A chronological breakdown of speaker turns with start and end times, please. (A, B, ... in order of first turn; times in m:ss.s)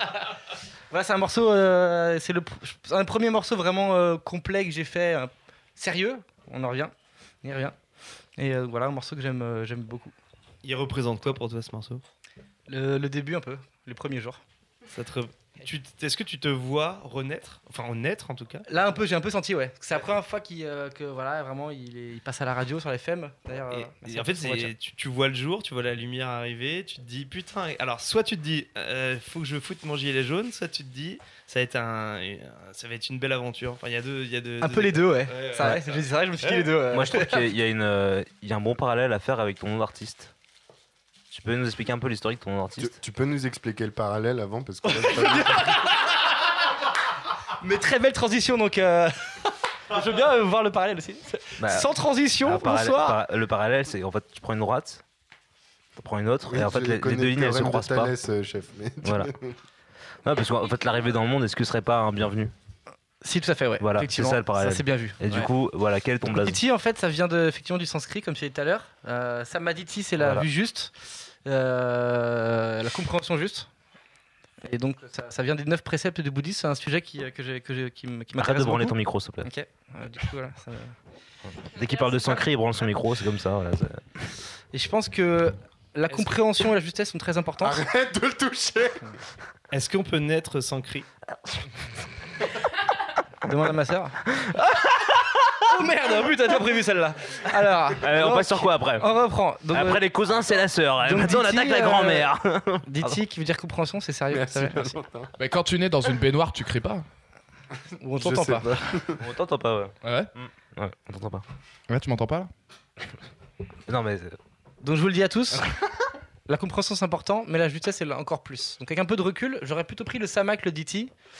0:00.9-0:06.9 A
0:07.4-0:07.8 A
0:08.4-0:10.1 A
0:10.6-0:12.0 B
0:12.7-0:14.4 A
0:14.9-0:18.6 B
0:18.7-0:24.7 A
0:23.7-0:36.7 B
0:34.6-0:37.5 A
0:36.9-0:40.3 C
0:41.3-0:42.9 C
0:42.8-0:45.8 D
0:44.9-0:46.0 A
0:47.6-0:53.2 A
0:51.6-0:55.0 C
0:56.0-0:58.1 C
0:56.5-0:59.5 D
0:59.0-0:59.3 C
1:00.2-1:02.5 C
1:03.2-1:05.5 A
1:03.8-1:06.6 C
1:06.2-1:10.9 A
1:10.2-1:10.5 C
1:11.4-1:13.7 A
1:14.6-1:20.9 A
1:18.4-1:19.5 C
1:21.6-1:24.1 C
1:24.7-1:27.8 A
1:27.6-1:29.1 D
1:29.7-1:31.0 B
1:33.4-1:34.2 A
1:35.6-1:40.0 A
1:38.0-1:39.1 C
1:39.7-1:43.2 C
1:41.0-1:42.3 A
1:42.8-1:45.0 A
1:44.3-1:45.3 D
1:45.4-1:47.0 E
1:48.0-1:48.8 A
1:48.2-1:49.2 D
1:49.2-1:51.4 C
1:50.0-1:50.3 E
1:51.9-1:52.5 E
1:53.9-1:54.4 C
1:54.8-1:55.7 A
1:56.5-2:01.1 A